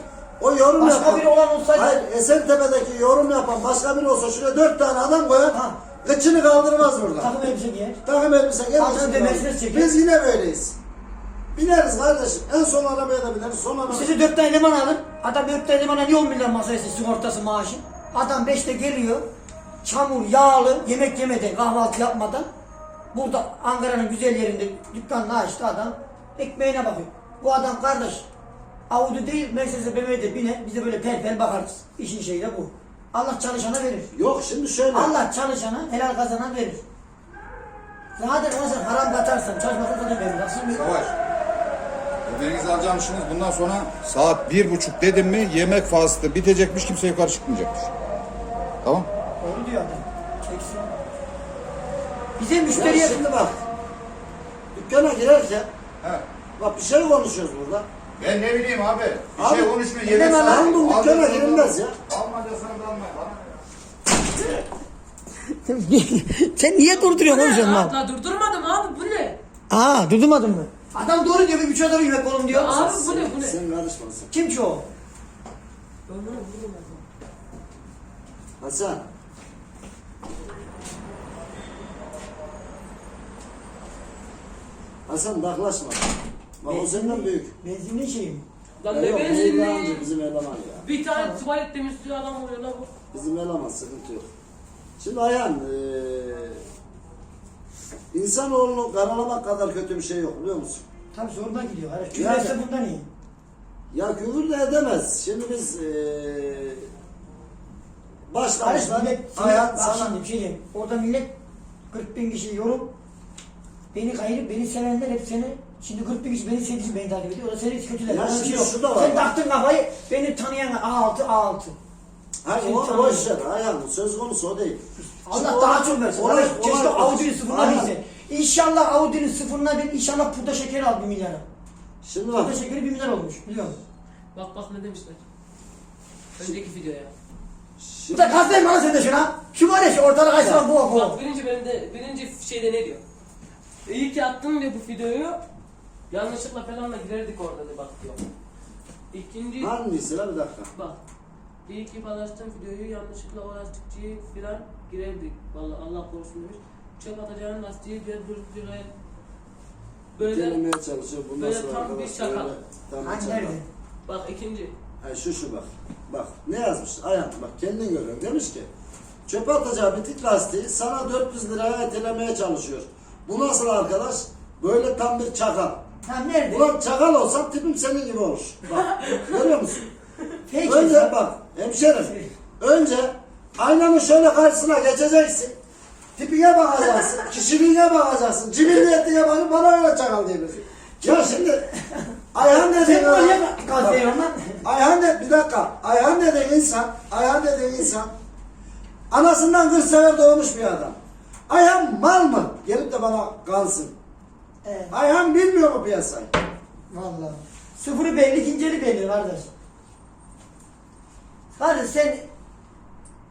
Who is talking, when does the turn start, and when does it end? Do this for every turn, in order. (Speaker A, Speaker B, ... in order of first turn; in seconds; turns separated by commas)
Speaker A: 0.4-7.3, Speaker B: 0.8-2.0, Speaker B: 5.5-5.8, Speaker B: 7.2-8.0, Speaker A: 8.0-10.8, Speaker B: 8.8-9.9, Speaker A: 11.5-14.1, Speaker B: 13.9-19.2, Speaker B: 19.8-22.5, Speaker B: 23.1-28.3, Speaker B: 28.9-34.1, Speaker A: 34.1-35.1, Speaker B: 34.9-36.8, Speaker B: 38.1-41.1, Speaker C: 40.8-41.1, Speaker C: 42.2-47.9, Speaker C: 48.8-49.1, Speaker B: 49.4-50.9, Speaker B: 52.4-53.2, Speaker A: 52.7-53.6, Speaker A: 54.7-55.7, Speaker A: 56.6-57.9, Speaker C: 58.2-63.5, Speaker A: 59.4-59.8, Speaker B: 60.0-61.3, Speaker A: 60.3-62.0, Speaker B: 65.5-67.9, Speaker D: 66.9-69.4, Speaker B: 69.7-72.8, Speaker D: 72.5-73.6, Speaker A: 72.6-74.3, Speaker B: 74.3-74.8, Speaker D: 76.1-77.0, Speaker A: 78.6-79.1, Speaker A: 85.1-87.5, Speaker B: 86.7-88.4, Speaker D: 88.8-90.1, Speaker A: 88.9-90.8, Speaker D: 90.8-92.9, Speaker B: 91.0-91.4, Speaker A: 93.1-94.3, Speaker A: 95.0-96.6, Speaker A: 98.1-100.8, Speaker B: 101.1-103.1, Speaker A: 102.1-102.5, Speaker A: 103.9-106.9, Speaker A: 108.3-110.2, Speaker B: 108.6-111.3, Speaker B: 111.9-112.9, Speaker B: 113.9-121.7, Speaker A: 118.1-119.3, Speaker A: 122.4-127.9, Speaker B: 122.5-123.3, Speaker B: 125.1-131.4, Speaker A: 132.0-132.6, Speaker B: 132.3-133.8, Speaker D: 134.3-135.2, Speaker D: 136.3-137.1, Speaker A: 137.8-138.7, Speaker B: 138.1-141.2, Speaker A: 140.4-140.6, Speaker D: 140.7-143.0, Speaker D: 143.8-145.4, Speaker D: 146.1-148.2, Speaker D: 149.1-149.7, Speaker A: 149.6-150.7, Speaker D: 151.7-158.9, Speaker D: 160.2-160.6, Speaker A: 160.2-163.6, Speaker D: 161.4-162.5, Speaker B: 163.0-163.7, Speaker D: 164.1-164.7, Speaker A: 165.0-168.7, Speaker A: 169.3-175.8, Speaker B: 176.0-176.7, Speaker A: 176.5-179.8, Speaker D: 178.9-179.4, Speaker B: 180.5-181.1, Speaker A: 180.6-185.6, Speaker A: 186.2-191.7, Speaker A: 192.3-194.0, Speaker B: 192.4-194.6, Speaker A: 194.6-198.1, Speaker A: 199.1-201.0, Speaker A: 201.5-203.9, Speaker B: 204.6-204.9, Speaker A: 204.9-206.3, Speaker B: 206.9-209.5, Speaker B: 211.5-212.2